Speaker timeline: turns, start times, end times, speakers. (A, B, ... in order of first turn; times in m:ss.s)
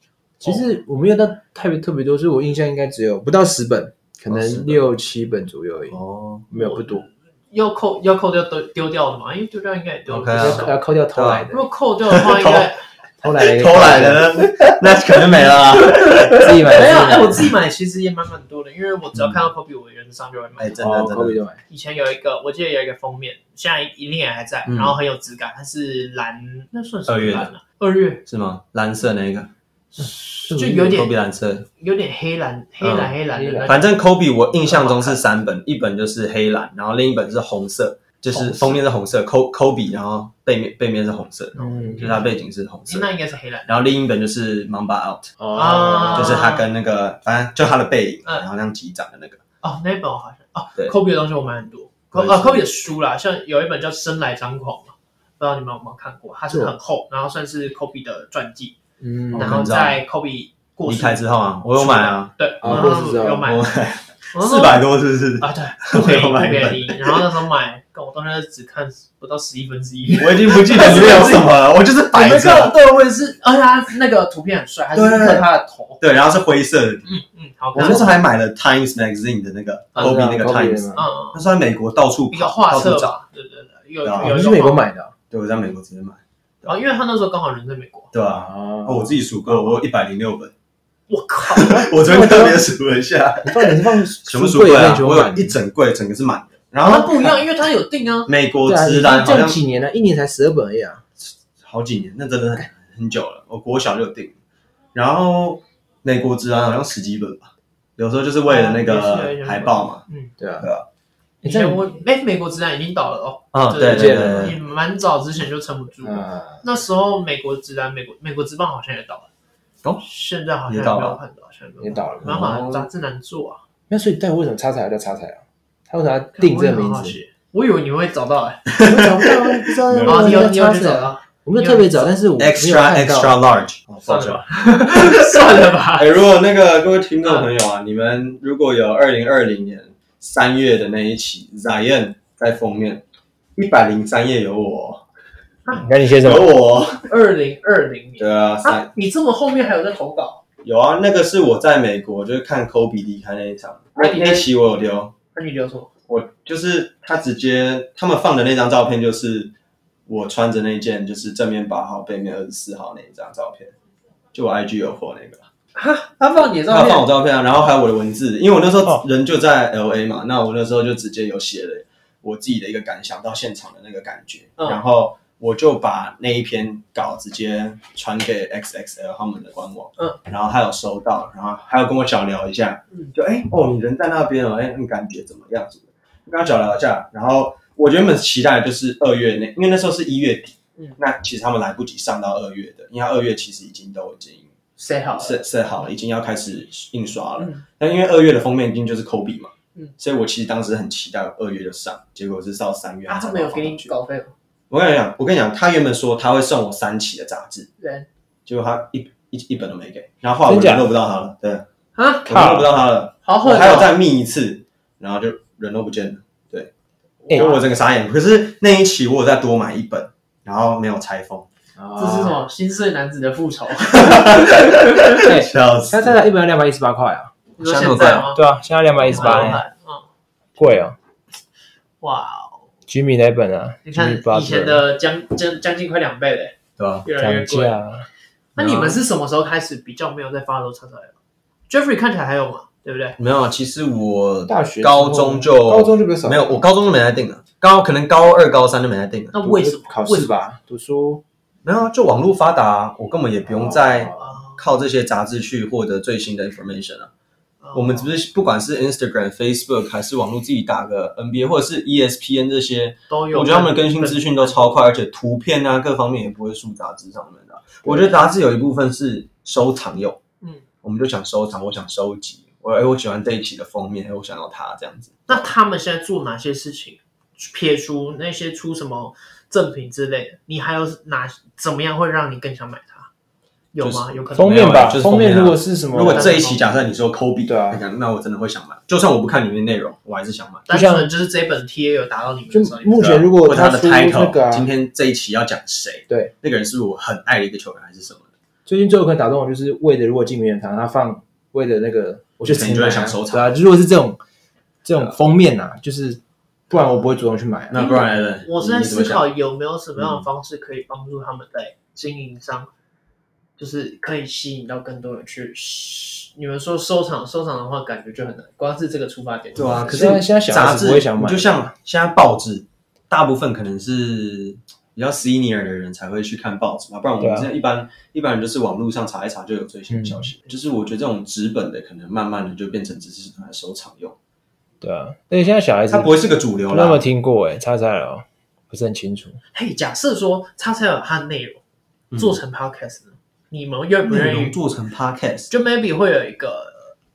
0:00.4-0:06.0 A
0:04.3-0:04.8 B
0:05.9-0:06.5 B
0:06.5-0:07.1 A
0:06.5-0:10.8 C
0:10.1-0:11.5 B
0:10.4-0:11.6 A
0:11.5-0:12.8 C
0:12.1-0:12.7 B
0:13.2-0:14.4 A
0:13.3-0:16.6 B
0:15.2-0:20.8 C
0:16.4-0:17.5 A
0:19.2-0:19.4 B
0:20.6-0:21.4 B
0:20.8-0:21.6 A
0:21.7-0:28.2 C
0:24.7-0:25.0 B
0:27.1-0:27.5 B
0:28.3-0:29.5 B
0:29.9-0:31.2 C
0:30.5-0:30.8 A
0:30.6-0:31.7 B
0:31.8-0:33.9 C
0:32.8-0:33.1 B
0:33.3-0:33.7 A
0:33.6-0:43.1 B
0:34.7-0:35.2 C
0:38.3-0:38.8 C
0:41.6-0:42.3 C
0:41.6-0:42.1 A
0:42.9-0:43.8 C
0:43.7-0:45.4 B
0:45.4-0:46.4 A
0:45.5-0:46.7 C
0:46.0-0:49.4 B
0:49.6-0:58.8 C
0:52.1-0:52.6 B
0:56.5-0:56.8 A
0:59.0-0:59.7 A
0:59.3-1:00.0 B
0:59.4-1:03.7 C
1:00.9-1:07.3 B
1:02.6-1:03.5 A
1:04.3-1:04.8 C
1:05.4-1:16.0 C
1:10.2-1:12.8 B
1:14.9-1:15.5 B
1:16.0-1:17.1 B
1:17.1-1:18.2 C
1:17.8-1:23.1 B
1:17.8-1:18.1 A
1:20.0-1:21.1 A
1:21.0-1:21.4 C
1:22.3-1:24.9 C
1:24.0-1:24.4 B
1:24.2-1:25.1 A
1:25.3-1:26.8 B
1:26.7-1:28.1 C
1:28.1-1:30.5 B
1:28.3-1:29.6 A
1:31.1-1:32.4 C
1:31.5-1:37.3 B
1:32.0-1:32.6 A
1:33.4-1:35.6 A
1:36.8-1:38.3 C
1:38.3-1:39.6 B
1:38.6-1:41.0 A
1:41.3-1:44.4 B
1:44.9-1:50.0 B
1:48.4-1:50.3 C
1:50.4-1:50.7 A
1:50.6-1:50.9 B
1:51.4-1:59.3 C
1:51.4-1:51.8 A
1:53.5-1:54.6 B
1:53.9-1:54.6 A
1:56.0-1:56.6 A
2:00.0-2:03.6 C
2:00.7-2:01.2 B
2:01.8-2:02.5 A
2:02.2-2:02.9 B
2:03.9-2:07.2 A
2:06.3-2:08.7 C
2:08.7-2:10.5 B
2:08.8-2:13.4 A
2:10.0-2:12.1 C
2:12.4-2:23.0 B
2:14.0-2:16.2 C
2:17.2-2:17.5 C
2:23.6-2:25.0 B
2:25.7-2:26.5 A
2:26.1-2:27.1 B
2:27.1-2:30.4 C
2:28.2-2:28.9 B
2:30.6-2:35.1 B
2:34.0-2:34.5 C
2:35.3-2:35.9 C
2:36.1-2:39.5 B
2:40.1-2:43.7 B
2:44.3-2:45.5 B
2:45.8-2:47.1 C
2:46.7-3:14.5 B
3:14.8-3:15.4 C
3:15.1-3:23.9 B
3:17.4-3:17.6 C
3:23.1-3:24.3 C
3:24.7-3:27.7 B
3:27.8-3:28.1 C
3:28.5-3:31.7 B
3:30.5-3:30.9 A
3:32.0-3:32.3 C
3:32.3-3:36.7 B
3:32.3-3:32.7 A
3:33.2-3:34.0 C
3:37.2-3:37.7 C
3:37.3-3:41.5 B
3:41.8-3:42.4 A
3:42.0-3:45.2 C
3:43.9-3:46.2 B
3:45.2-3:47.3 A
3:47.6-3:48.5 C
3:47.6-3:48.3 B
3:48.3-3:49.6 A
3:49.1-3:49.6 B
3:49.1-3:50.1 C
3:50.6-3:51.0 A
3:52.0-3:52.7 C
3:52.9-3:54.8 A
3:53.9-3:57.8 C
3:56.8-3:57.1 B
3:57.2-3:58.1 A
3:58.6-4:01.2 C
3:58.6-3:59.0 B
4:01.7-4:03.2 C
4:03.2-4:09.4 B
4:04.5-4:06.7 A
4:09.3-4:10.4 C
4:09.4-4:11.2 A
4:11.6-4:17.1 B
4:13.6-4:14.0 A
4:14.0-4:14.6 C
4:17.6-4:18.1 C
4:17.7-4:30.2 B
4:23.1-4:24.8 C
4:27.8-4:28.1 A
4:30.8-4:35.5 B
4:35.3-4:43.1 C
4:43.7-4:44.8 C
4:43.8-4:50.7 B
4:44.4-4:46.4 A
4:46.1-4:46.8 C
4:47.5-4:47.8 A
4:50.7-4:53.1 C
4:50.7-4:51.1 A
4:52.5-4:54.7 A
4:53.0-4:58.3 B
4:58.7-5:04.2 A
5:02.4-5:03.6 B
5:04.8-5:08.0 A
5:07.7-5:09.3 B
5:07.8-5:12.7 C
5:10.0-5:10.2 B
5:13.6-5:20.2 C
5:19.6-5:34.2 B
5:19.9-5:21.7 A
5:27.2-5:27.5 A
5:29.9-5:30.3 A
5:34.8-5:36.1 A
5:35.9-5:37.0 B
5:36.7-5:39.4 A
5:39.5-5:41.6 C
5:42.1-5:42.4 B
5:42.2-5:44.6 C
5:44.1-5:45.5 B
5:45.5-5:46.9 C